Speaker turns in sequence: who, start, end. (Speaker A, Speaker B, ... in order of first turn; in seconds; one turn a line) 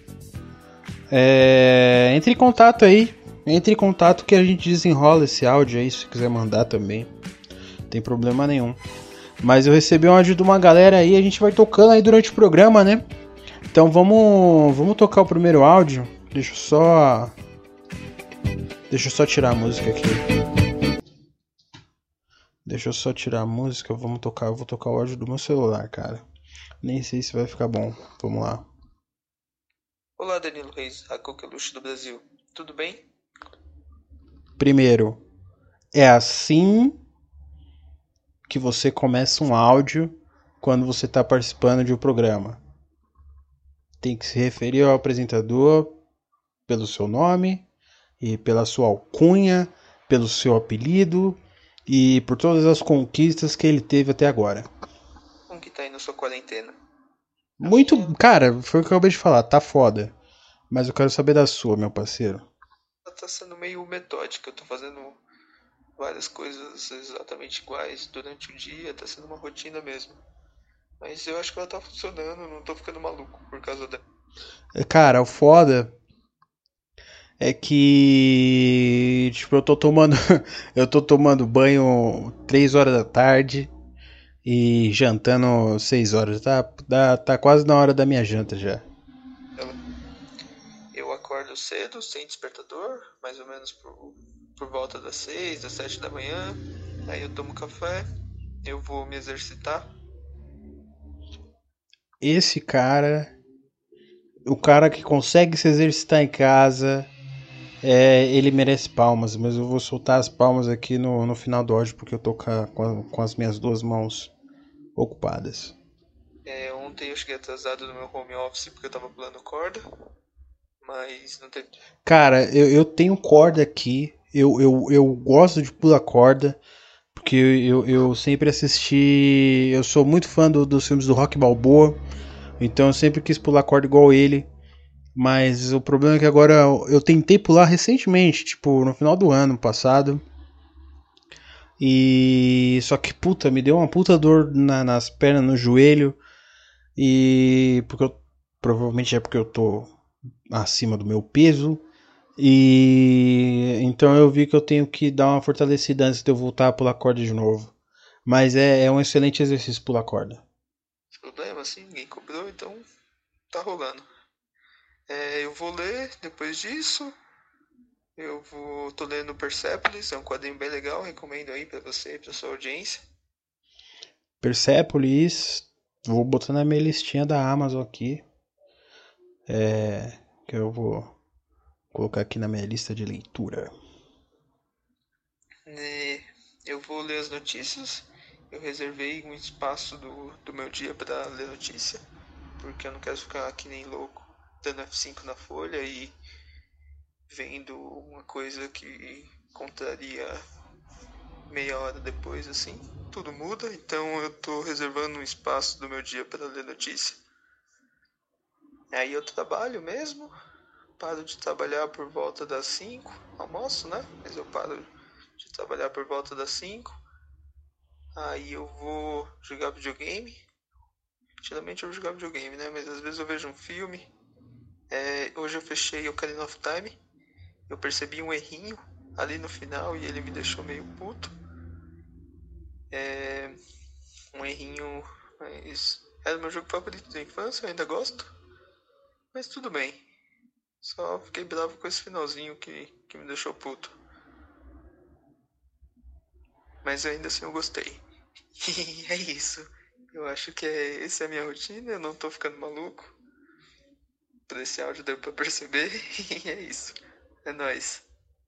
Speaker A: 1.1-7.1
Speaker A: 7.9-8.8
Speaker A: 9.4-13.0
Speaker A: 13.7-17.3
Speaker A: 18.9-20.2
Speaker A: 22.6-26.2
Speaker A: 26.8-28.7
Speaker B: 30.2-33.0
Speaker A: 34.6-35.2
Speaker A: 35.9-37.0
Speaker A: 38.5-42.6
Speaker A: 44.0-46.0
Speaker A: 46.7-47.6
Speaker A: 48.2-54.7
Speaker B: 55.5-56.8
Speaker A: 57.6-60.1
Speaker B: 57.6-58.1
Speaker A: 60.7-62.5
Speaker B: 63.0-65.2
Speaker B: 66.0-70.2
Speaker B: 71.0-74.0
Speaker A: 74.7-75.9
Speaker A: 77.4-83.7
Speaker A: 84.4-88.8
Speaker B: 90.9-98.0
Speaker B: 98.6-99.9
Speaker A: 102.2-103.3
Speaker A: 104.5-107.1
Speaker A: 107.8-114.3
Speaker A: 115.0-115.7
Speaker B: 116.5-119.8
Speaker B: 120.8-121.7
Speaker A: 122.0-126.6
Speaker A: 127.1-132.0
Speaker A: 132.6-134.5
Speaker A: 135.1-140.2
Speaker A: 141.8-146.2
Speaker A: 146.9-149.9
Speaker A: 150.5-151.8
Speaker A: 152.4-157.7
Speaker A: 158.2-160.4
Speaker B: 161.1-162.8
Speaker B: 163.5-164.1
Speaker B: 165.1-167.1
Speaker B: 168.2-173.0
Speaker A: 174.4-178.2
Speaker A: 179.5-181.1
Speaker A: 181.9-183.7
Speaker B: 185.7-192.0
Speaker B: 192.6-196.1
Speaker B: 197.3-200.4
Speaker B: 201.5-207.2
Speaker B: 208.9-210.3
Speaker B: 211.0-217.0
Speaker B: 218.1-220.4
Speaker B: 221.4-224.1
Speaker B: 224.9-227.0
Speaker B: 227.7-231.3
Speaker B: 232.9-233.6
Speaker B: 234.3-238.3
Speaker B: 239.3-240.0
Speaker B: 240.8-243.9
Speaker B: 246.8-248.0
Speaker B: 248.6-253.1
Speaker B: 254.5-258.0